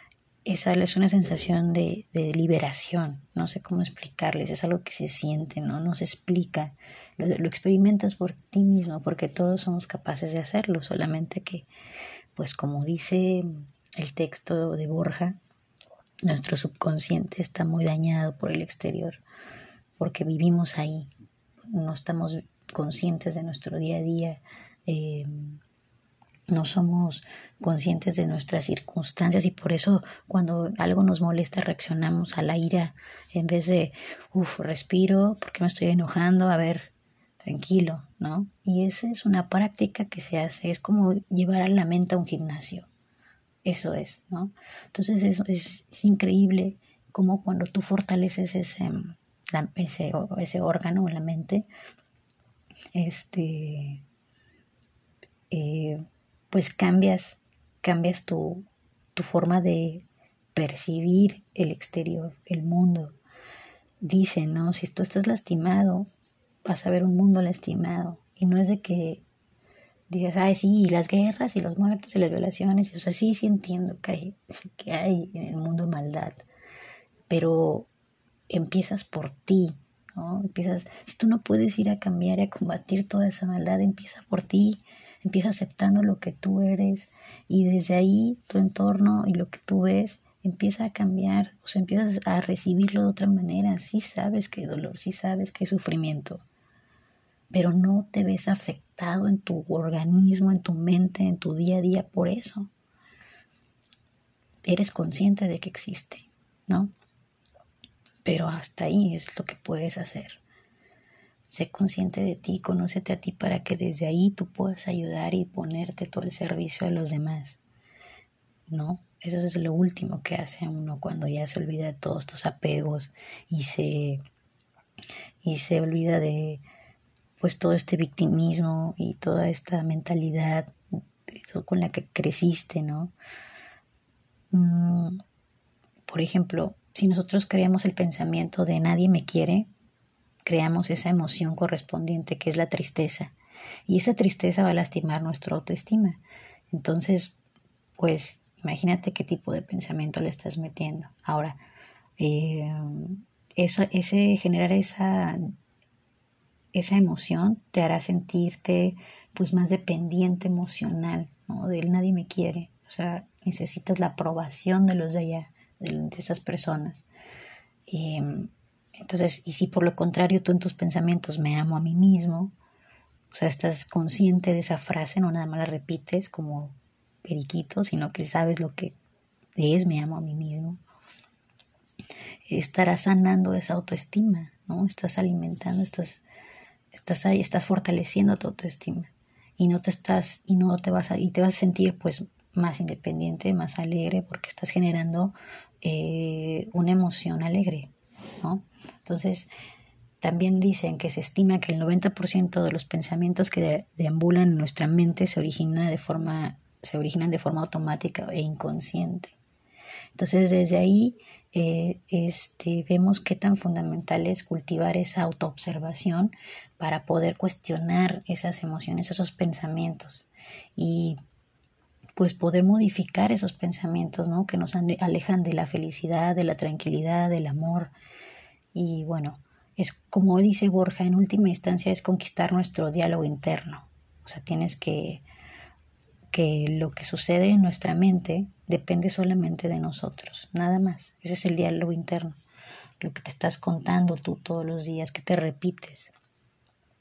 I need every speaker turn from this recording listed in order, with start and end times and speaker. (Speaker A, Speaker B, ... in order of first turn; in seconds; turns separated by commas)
Speaker A: 0.5-11.7, Speaker A: 12.4-13.5, Speaker A: 14.0-15.4, Speaker A: 16.2-19.2, Speaker A: 20.0-21.1, Speaker A: 21.6-25.6, Speaker A: 26.5-42.9, Speaker A: 43.6-51.7, Speaker A: 53.0-54.0, Speaker A: 55.5-63.2, Speaker A: 64.0-66.1, Speaker A: 66.6-69.2, Speaker A: 70.1-76.4, Speaker A: 77.3-77.9, Speaker A: 78.5-96.5, Speaker A: 97.5-102.7, Speaker A: 104.6-106.9, Speaker A: 108.2-110.4, Speaker A: 111.5-117.6, Speaker A: 118.7-124.2, Speaker A: 125.4-126.6, Speaker A: 127.4-130.7, Speaker A: 131.3-133.1, Speaker A: 134.5-135.2, Speaker A: 136.1-139.7, Speaker A: 140.4-143.3, Speaker A: 143.9-147.4, Speaker A: 148.0-151.6, Speaker A: 152.2-155.5, Speaker A: 156.7-167.1, Speaker A: 167.9-172.5, Speaker A: 173.3-178.9, Speaker A: 179.6-180.8, Speaker A: 182.5-186.2, Speaker A: 186.9-199.5, Speaker A: 200.2-209.4, Speaker A: 210.2-221.2, Speaker A: 222.2-227.9, Speaker A: 228.8-235.2, Speaker A: 236.3-242.4, Speaker A: 243.0-246.1